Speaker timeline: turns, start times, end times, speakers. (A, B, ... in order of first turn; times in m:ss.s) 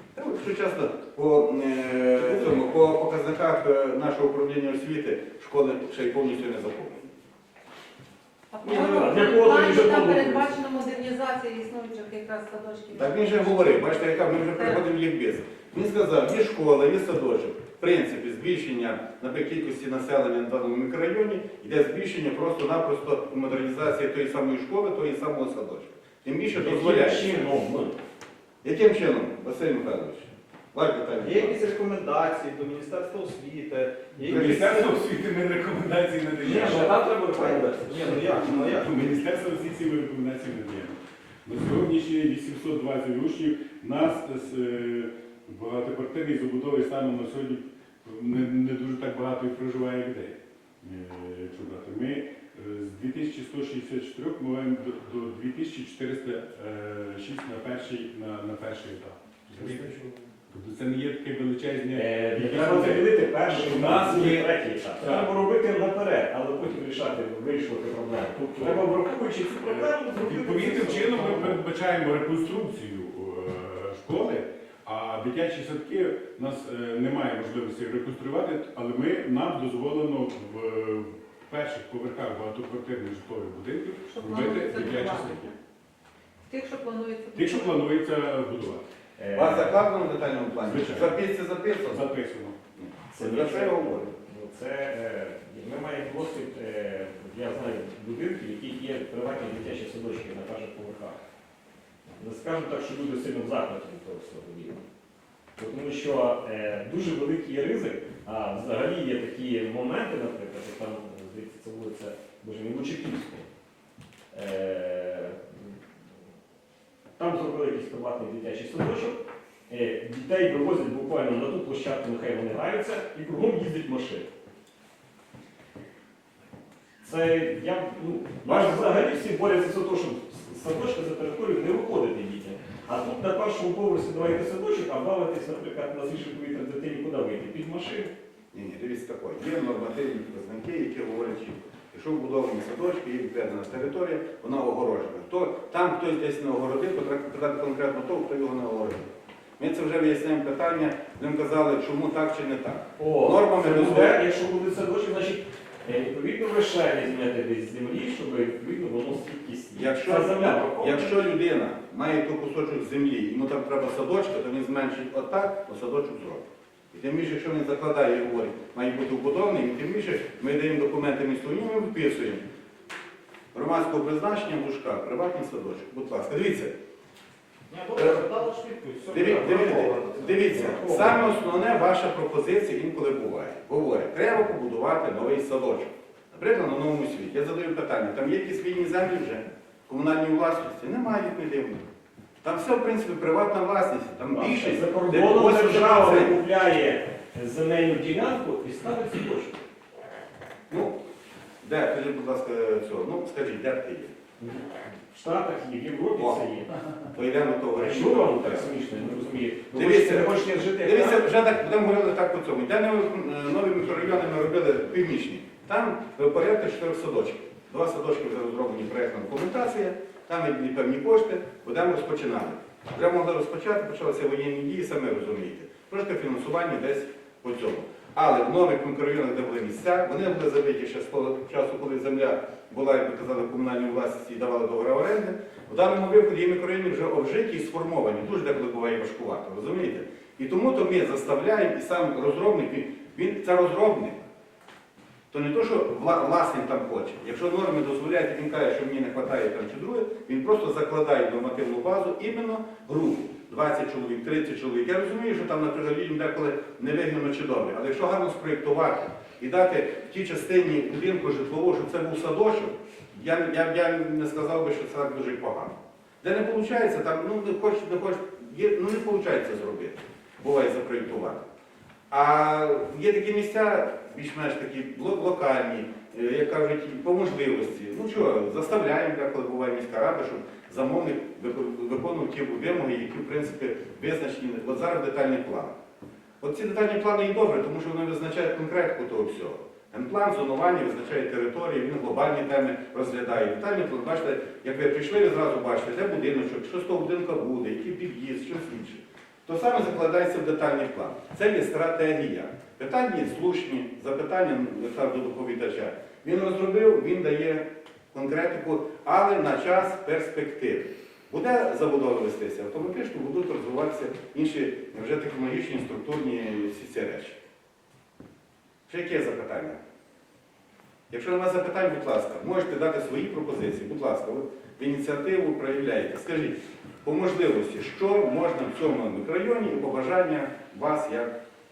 0:00.2-0:07.2 A
0:02.2-0:02.6 B
0:08.5-0:14.8 C
0:08.6-0:10.6 B
0:13.0-0:27.4 A
0:26.5-0:28.0 B
0:28.6-0:31.5 A
0:31.2-0:35.0 D
0:34.2-0:36.9 E
0:36.4-0:38.4 B
0:36.6-0:39.1 D
0:38.3-1:05.3 E
1:01.9-1:11.6 B
1:08.4-1:08.9 E
1:09.6-1:25.5 E
1:24.0-1:25.6 C
1:26.5-1:27.8 C
1:27.4-1:28.9 E
1:29.2-1:29.8 B
1:29.3-1:32.1 A
1:30.6-1:31.2 E
1:31.8-1:32.6 E
1:32.8-1:34.1 A
1:33.1-1:41.2 B
1:42.2-1:44.8 B
1:45.6-1:53.5 B
1:54.3-1:55.7 B
1:57.2-2:04.3 B
2:07.0-2:18.1 B
2:18.5-2:34.3 A
2:33.0-2:41.2 B
2:39.7-2:52.4 A
2:53.5-2:56.7 A
2:57.7-3:00.9 D
2:59.1-3:11.8 A
3:00.5-3:01.3 B
3:12.4-3:16.4 A
3:14.3-3:19.6 B
3:20.7-3:21.0 A
3:21.6-3:24.1 A
3:24.4-3:27.0 B
3:26.2-3:26.4 A
3:27.1-3:28.7 A
3:27.8-3:31.3 B
3:29.7-4:04.3 A
4:05.3-4:31.4 A
4:32.1-4:45.7 A
4:46.4-5:17.4 A
5:18.9-5:19.8 A
5:21.1-5:31.3 A